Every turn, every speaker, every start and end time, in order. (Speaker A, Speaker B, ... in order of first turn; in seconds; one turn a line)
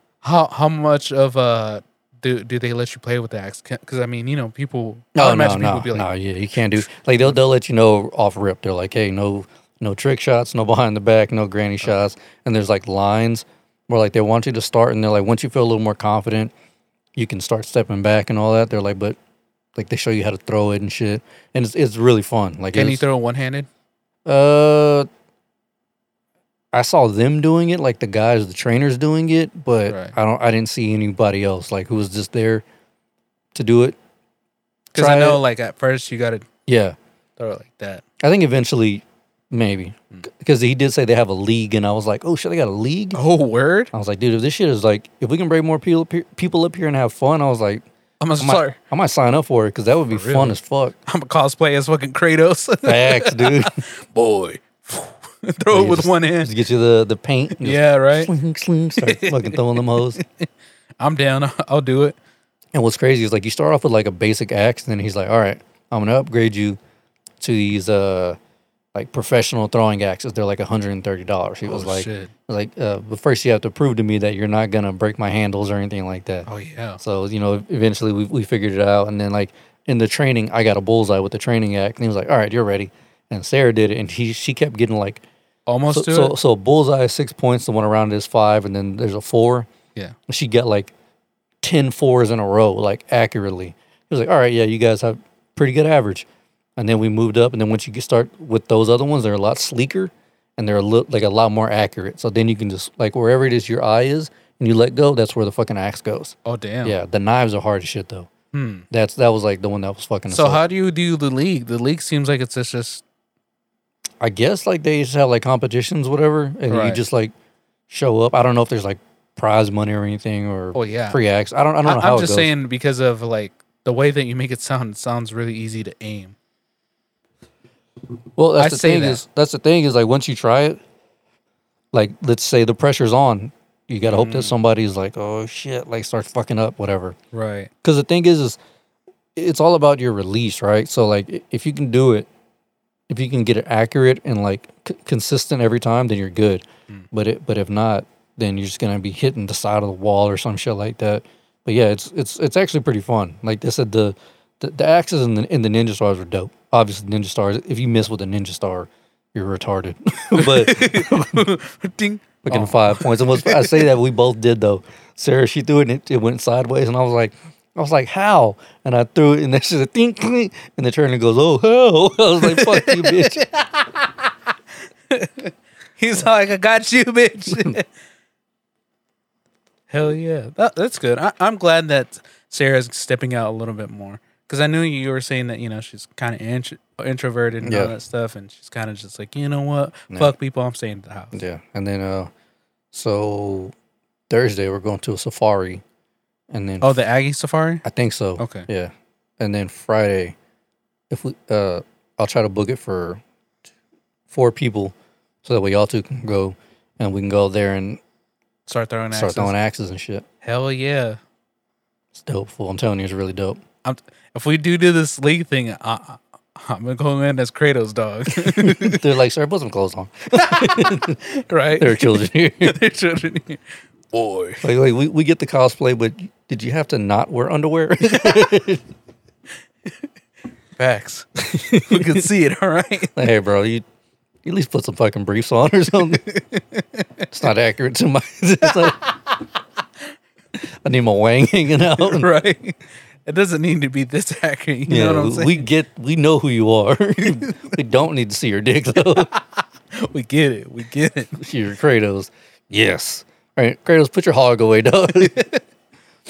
Speaker A: 0.2-6.1
Speaker B: 5.1-16.5
Speaker A: 6.8-7.3
Speaker B: 17.1-19.2
Speaker B: 19.8-23.0
Speaker A: 22.7-23.7
Speaker B: 24.2-25.1
Speaker B: 26.7-32.6
Speaker A: 29.9-30.1
Speaker B: 33.5-34.0
Speaker A: 34.9-36.5
Speaker B: 35.0-35.4
Speaker B: 36.7-37.0
Speaker A: 37.4-38.0
Speaker B: 38.2-43.2
Speaker A: 43.1-43.9
Speaker B: 43.9-47.8
Speaker A: 48.2-48.8
Speaker B: 48.4-50.9
Speaker A: 50.1-56.5
Speaker B: 52.8-53.8
Speaker B: 55.7-60.2
Speaker A: 57.6-58.3
Speaker A: 59.0-60.5
Speaker A: 61.0-62.1
Speaker B: 62.7-66.8
Speaker B: 67.4-68.4
Speaker B: 68.9-76.5
Speaker A: 71.6-72.3
Speaker A: 76.5-77.0
Speaker B: 77.0-85.2
Speaker A: 85.7-86.3
Speaker B: 85.9-89.7
Speaker B: 90.3-90.9
Speaker B: 91.6-96.2
Speaker B: 96.8-108.3
Speaker A: 106.5-107.0
Speaker A: 108.5-108.8
Speaker B: 108.9-110.6
Speaker A: 110.3-113.0
Speaker B: 114.2-117.3
Speaker A: 116.7-117.0
Speaker B: 117.9-122.5
Speaker A: 120.7-121.2
Speaker A: 121.8-126.3
Speaker B: 128.4-130.8
Speaker A: 128.6-129.2
Speaker B: 131.9-137.2
Speaker A: 134.0-134.6
Speaker A: 137.3-137.7
Speaker B: 137.8-138.6
Speaker B: 139.3-142.3
Speaker B: 143.1-161.4
Speaker A: 160.3-163.9
Speaker B: 162.4-173.4
Speaker A: 172.4-174.3
Speaker A: 175.1-177.8
Speaker A: 179.9-191.4
Speaker B: 187.6-187.9
Speaker B: 191.3-192.3
Speaker B: 192.9-193.7
Speaker B: 194.3-195.8
Speaker B: 196.5-197.0
Speaker A: 196.8-197.8
Speaker B: 197.8-200.3
Speaker A: 198.4-198.7
Speaker B: 201.1-203.2
Speaker B: 204.3-208.0
Speaker A: 208.7-209.5
Speaker B: 209.1-210.2
Speaker A: 210.4-211.2
Speaker B: 212.1-213.6
Speaker A: 213.8-219.0
Speaker B: 218.4-221.2
Speaker A: 220.3-224.6
Speaker B: 221.8-222.8
Speaker B: 224.6-228.8
Speaker A: 228.1-228.6
Speaker A: 230.8-233.2
Speaker B: 231.4-232.2
Speaker B: 233.1-233.8
Speaker B: 234.4-236.3
Speaker A: 236.3-237.2
Speaker B: 237.3-239.0
Speaker A: 238.6-239.4
Speaker B: 240.8-242.3
Speaker A: 241.9-245.7
Speaker B: 244.9-249.3
Speaker A: 247.2-247.7
Speaker A: 249.0-251.4
Speaker B: 251.4-255.5
Speaker A: 255.2-255.6